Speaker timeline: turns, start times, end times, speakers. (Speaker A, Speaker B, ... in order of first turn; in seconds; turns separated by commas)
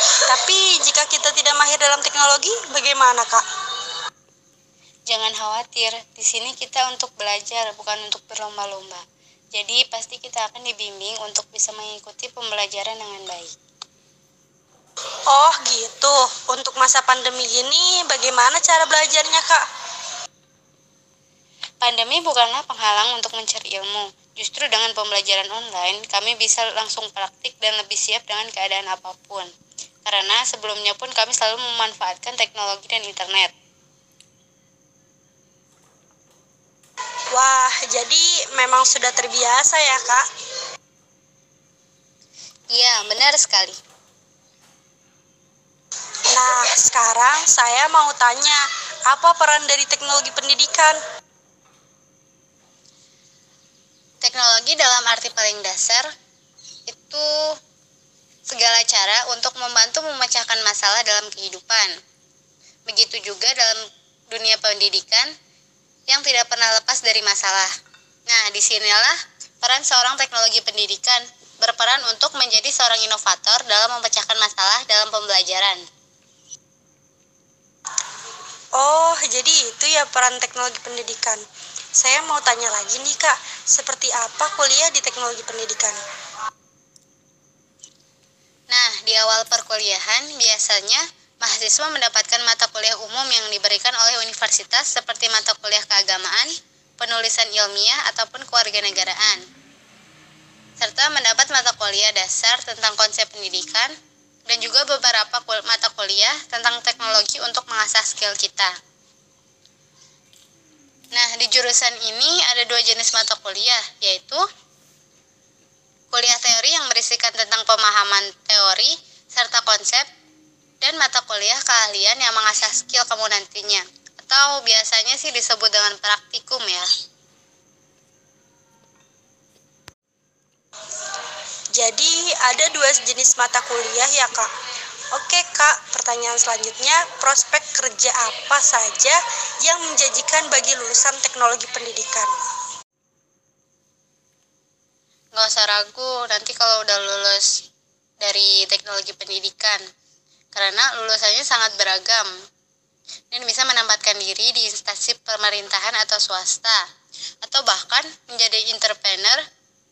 Speaker A: 0.3-3.4, Speaker B: 5.1-9.0, Speaker B: 9.5-13.5, Speaker A: 15.3-19.6, Speaker B: 21.8-29.5, Speaker B: 30.0-33.5, Speaker A: 37.3-40.2, Speaker B: 42.7-43.8, Speaker A: 46.3-51.0, Speaker B: 54.2-56.1, Speaker B: 56.9-57.2, Speaker B: 58.5-61.9, Speaker B: 62.9-63.8, Speaker B: 64.3-65.3, Speaker B: 66.1-67.7, Speaker B: 68.3-75.8, Speaker A: 78.8-81.4, Speaker A: 82.0-86.0, Speaker B: 88.7-99.4, Speaker B: 100.8-103.9, Speaker B: 104.5-108.7, Speaker B: 111.1-114.4, Speaker B: 116.1-120.1, Speaker B: 120.8-126.9, Speaker A: 131.7-134.5, Speaker A: 135.1-142.3, Speaker B: 145.3-147.5, Speaker B: 148.2-149.8, Speaker B: 150.5-152.3, Speaker B: 153.3-156.8, Speaker B: 157.4-159.4